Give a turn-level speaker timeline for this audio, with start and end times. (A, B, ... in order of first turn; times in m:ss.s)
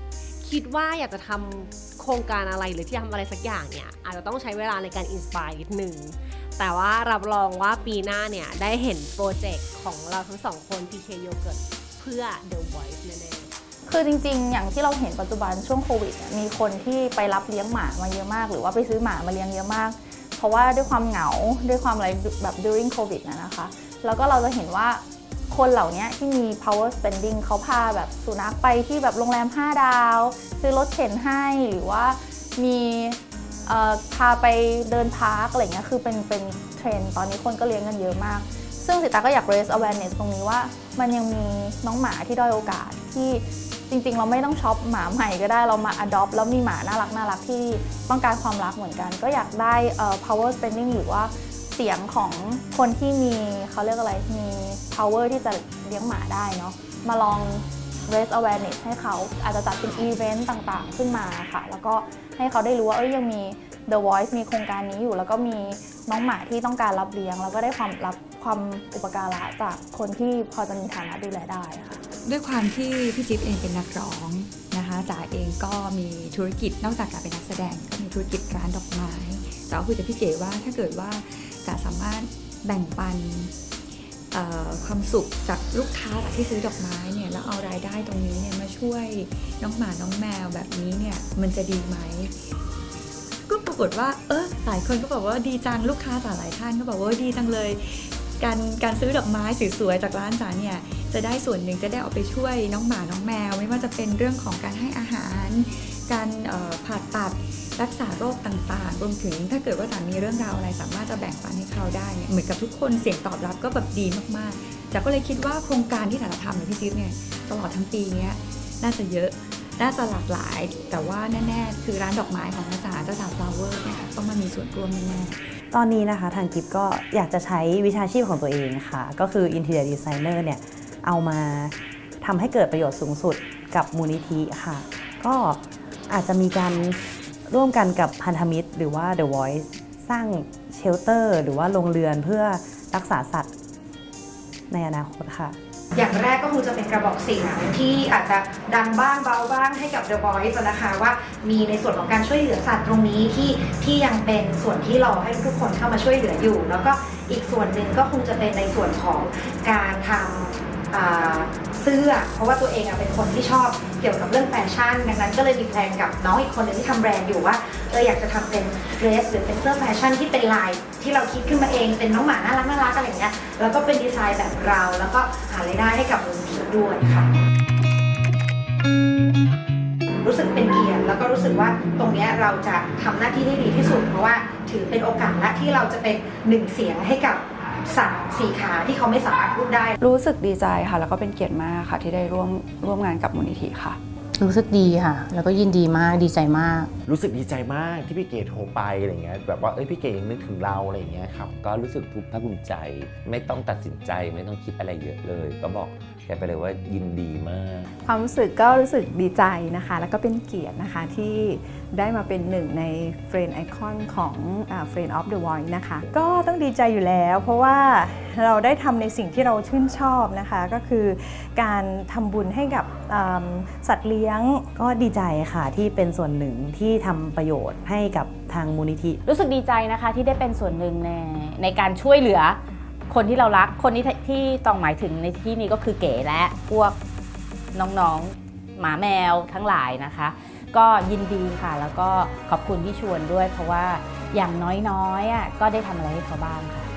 0:00.4-0:13.5 A
0:13.8-1:12.0 B
1:12.2-1:23.5 C
1:24.3-1:32.4 C
1:33.5-2:05.5 C
2:05.7-2:23.5 D
2:24.7-2:25.6 D
2:26.0-2:57.3 E
3:00.2-3:10.0 E
3:10.0-3:14.0 F
3:14.4-3:16.9 G
3:17.1-3:21.5 H
3:21.6-3:27.9 I
3:28.0-3:36.1 J
3:36.1-3:44.7 K
3:44.8-3:49.2 D
3:49.3-3:57.0 L
3:57.7-4:06.9 L